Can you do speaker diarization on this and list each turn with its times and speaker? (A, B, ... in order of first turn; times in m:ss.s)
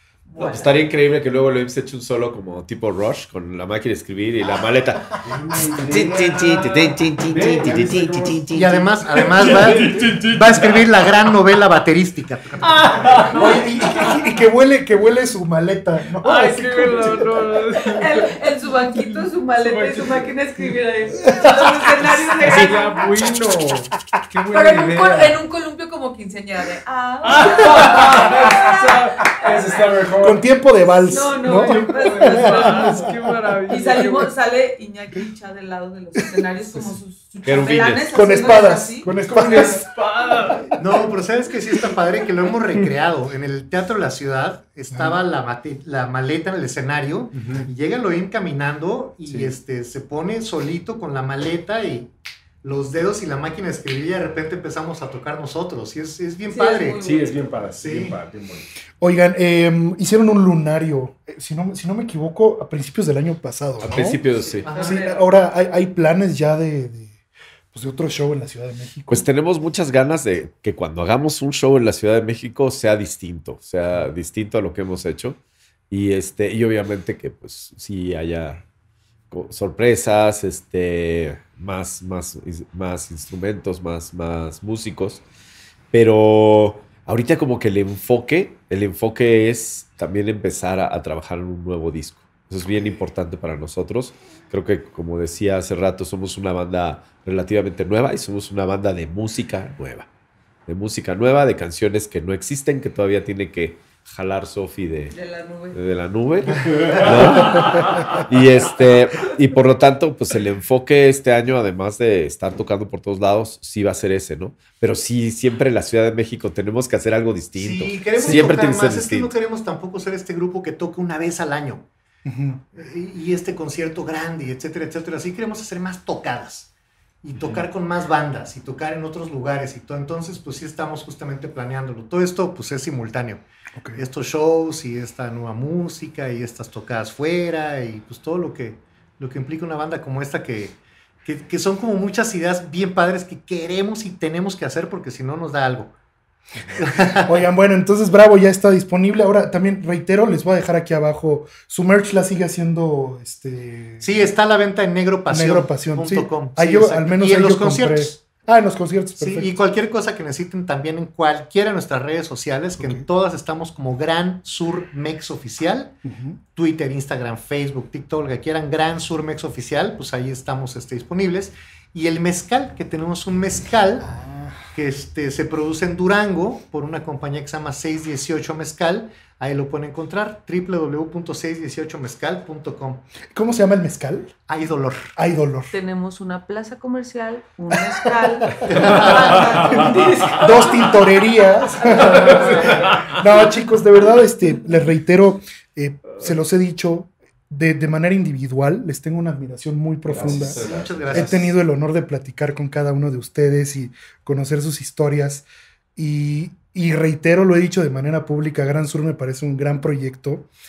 0:00.3-0:00.7 A
0:00.4-0:08.9 B
0:00.4-0:00.7 C
0:05.2-0:06.6 D
0:05.5-0:10.9 C
0:08.5-0:13.6 E
0:12.6-0:14.1 A
0:12.6-0:14.2 C
0:13.3-0:17.4 D
0:16.2-0:18.3 C
0:17.8-0:23.1 A
0:19.6-0:20.3 C
0:21.2-0:22.6 D
0:22.4-0:25.4 C
0:24.5-0:30.0 A
0:27.2-0:30.4 C
0:27.8-0:28.3 D
0:30.2-0:33.1 D
0:31.1-0:33.1 A
0:31.4-0:34.3 C
0:33.7-0:39.8 A
0:36.2-0:36.9 D
0:37.4-0:38.4 B
0:38.1-0:39.8 D
0:39.1-0:40.8 C
0:40.8-0:52.1 E
0:44.9-0:45.2 D
0:47.3-0:47.7 C
0:49.2-0:49.6 C
0:52.6-0:57.0 E
0:56.5-0:57.5 A
0:57.0-0:58.7 C
0:57.7-0:58.2 E
0:59.0-1:04.2 D
1:03.8-1:04.7 B
1:04.4-1:05.2 A
1:04.6-1:05.0 E
1:04.7-1:07.2 D
1:07.7-1:09.2 D
1:09.1-1:15.4 B
1:15.9-1:18.6 B
1:19.3-1:25.2 B
1:25.9-1:40.0 B
1:40.7-1:45.1 B
1:45.1-1:45.8 A
1:45.7-1:59.3 B
1:46.7-1:48.2 C
1:57.6-2:01.8 E
2:02.2-2:02.6 D
2:02.7-2:06.7 E
2:07.2-2:13.4 E
2:13.8-2:14.0 D
2:13.9-2:25.9 E
2:26.8-2:27.4 E
2:27.2-2:34.3 D
2:34.0-2:38.2 E
2:35.3-2:39.5 D
2:39.2-2:46.0 E
2:42.8-2:43.0 D
2:46.0-2:46.4 D
2:46.5-2:54.1 E
2:54.0-2:54.7 D
2:54.7-3:03.0 E
3:03.3-3:04.3 D
3:04.5-3:05.1 E
3:05.2-3:05.7 D
3:05.7-3:13.2 A
3:07.8-3:30.5 D
3:08.8-3:09.5 E
3:08.9-3:10.4 C
3:12.0-3:13.2 C
3:20.1-3:21.2 C
3:20.2-3:21.3 B
3:20.2-3:21.6 E